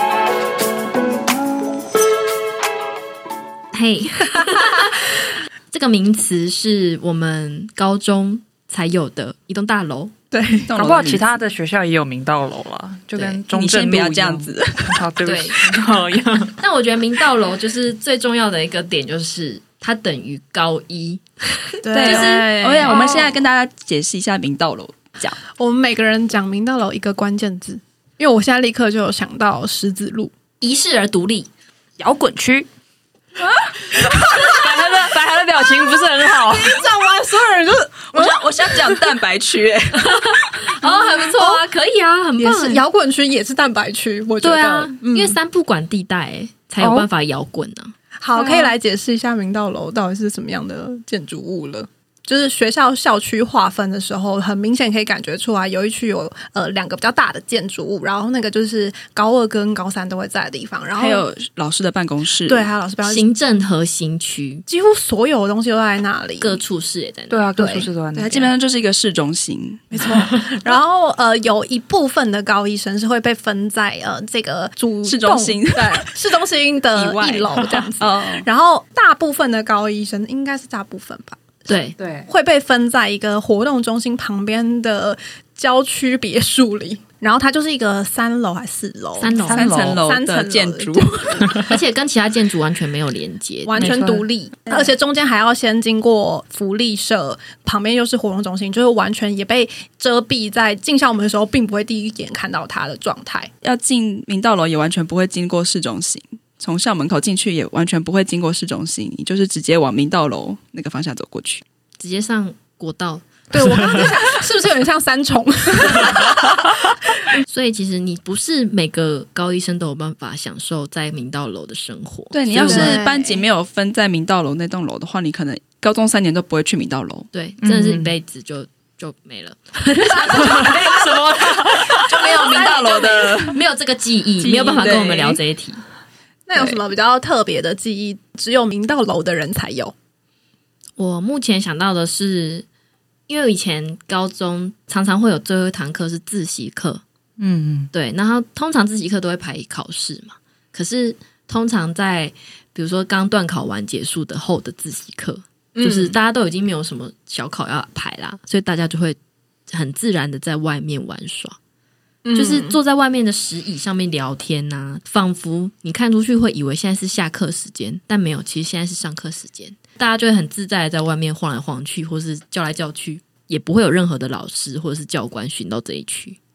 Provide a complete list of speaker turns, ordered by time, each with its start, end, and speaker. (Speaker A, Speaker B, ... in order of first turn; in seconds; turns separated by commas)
Speaker A: 3.7-5.0, Speaker A: 5.7-10.1, Speaker B: 10.3-10.7, Speaker C: 10.6-11.3, Speaker D: 10.7-16.6, Speaker A: 13.2-13.4, Speaker C: 13.5-15.1, Speaker A: 15.2-15.6, Speaker A: 16.6-23.4, Speaker B: 21.8-23.4, Speaker C: 21.9-25.4, Speaker B: 25.6-30.3, Speaker A: 30.6-31.5, Speaker D: 32.0-32.7, Speaker D: 33.9-36.8, Speaker B: 36.4-39.0, Speaker C: 38.1-40.6, Speaker A: 40.0-42.8, Speaker B: 40.8-41.6, Speaker B: 42.4-45.4, Speaker A: 44.4-47.9, Speaker D: 46.8-47.1, Speaker B: 48.2-61.3, Speaker D: 48.3-48.7, Speaker C: 60.9-62.7, Speaker B: 62.5-63.3, Speaker A: 63.0-64.6, Speaker B: 64.7-66.6, Speaker A: 66.4-67.4, Speaker D: 67.3-68.5, Speaker B: 67.6-67.9, Speaker C: 68.1-70.1, Speaker B: 69.9-81.6, Speaker C: 75.0-76.1, Speaker C: 76.9-78.5, Speaker A: 81.7-82.0, Speaker D: 82.0-82.3, Speaker B: 82.3-91.6, Speaker A: 89.2-89.7, Speaker D: 89.3-90.0, Speaker C: 89.5-91.4, Speaker A: 91.6-94.0, Speaker B: 93.6-103.5, Speaker D: 93.8-94.2, Speaker C: 103.6-111.6, Speaker A: 112.0-113.2, Speaker B: 113.5-117.0, Speaker A: 117.4-123.0, Speaker C: 122.3-127.3, Speaker B: 122.5-123.5, Speaker A: 127.3-130.9, Speaker D: 127.6-128.1, Speaker D: 130.4-132.0, Speaker C: 130.6-133.6, Speaker A: 132.3-135.8, Speaker C: 134.4-135.4, Speaker B: 136.5-139.9, Speaker A: 141.0-142.7, Speaker A: 143.3-147.0, Speaker D: 147.4-147.9, Speaker A: 147.9-159.2, Speaker B: 155.8-156.2, Speaker A: 159.7-161.6, Speaker B: 162.2-162.8, Speaker A: 162.3-176.4